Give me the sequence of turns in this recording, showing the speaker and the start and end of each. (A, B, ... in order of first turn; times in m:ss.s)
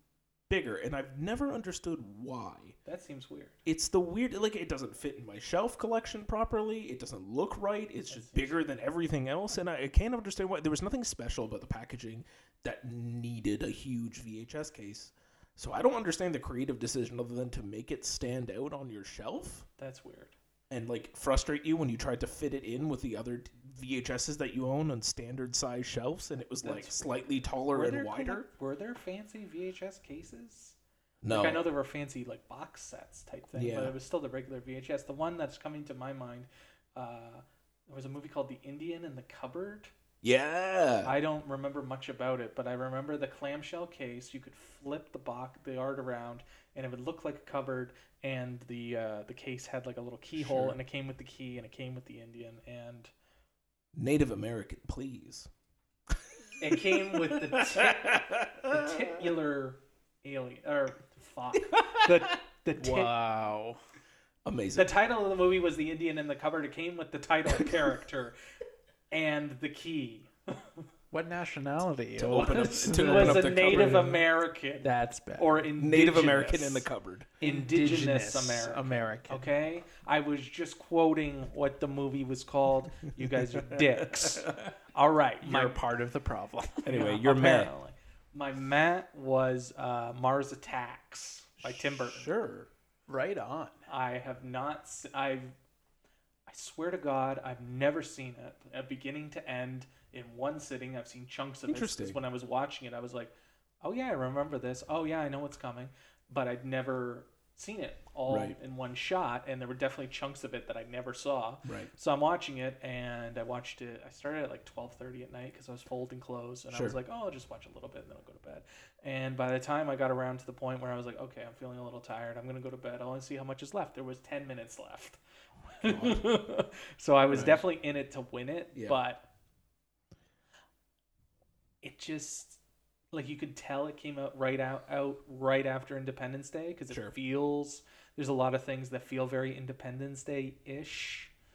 0:00.5-0:02.8 A
0:02.8-0:03.6 B
0:03.7-0:19.7 A
0:08.1-0:08.8 B
0:19.8-0:20.4 B
0:20.7-0:28.5 A
0:26.6-0:27.0 B
0:27.7-0:30.8 B
0:31.2-0:31.7 A
0:31.3-0:39.9 B
0:33.6-0:34.0 A
0:40.2-0:41.2 A
0:41.0-0:53.1 B
0:50.4-0:50.8 A
0:54.0-0:55.5 A
0:56.6-1:03.1 B
0:56.7-0:59.1 A
1:01.8-1:02.0 A
1:02.8-1:03.8 C
1:04.4-1:05.0 A
1:04.8-1:08.4 B
1:09.1-1:10.8 B
1:11.1-1:14.3 C
1:12.2-1:14.1 A
1:12.9-1:16.9 B
1:14.8-1:15.7 C
1:15.8-1:17.3 A
1:17.4-1:19.5 C
1:17.4-1:25.8 B
1:24.2-1:24.6 A
1:25.4-1:27.3 C
1:26.8-1:27.7 A
1:26.9-1:32.4 B
1:31.8-1:32.7 A
1:33.1-1:33.8 C
1:33.9-1:35.6 B
1:36.5-2:05.2 B
1:41.7-1:42.2 A
1:48.3-1:48.6 A
1:51.7-1:51.9 A
1:56.7-1:57.0 A
2:05.7-2:09.3 B
2:05.8-2:06.3 A
2:07.3-2:07.6 A
2:08.7-2:09.0 A
2:11.8-2:12.6 B
2:13.1-2:21.3 B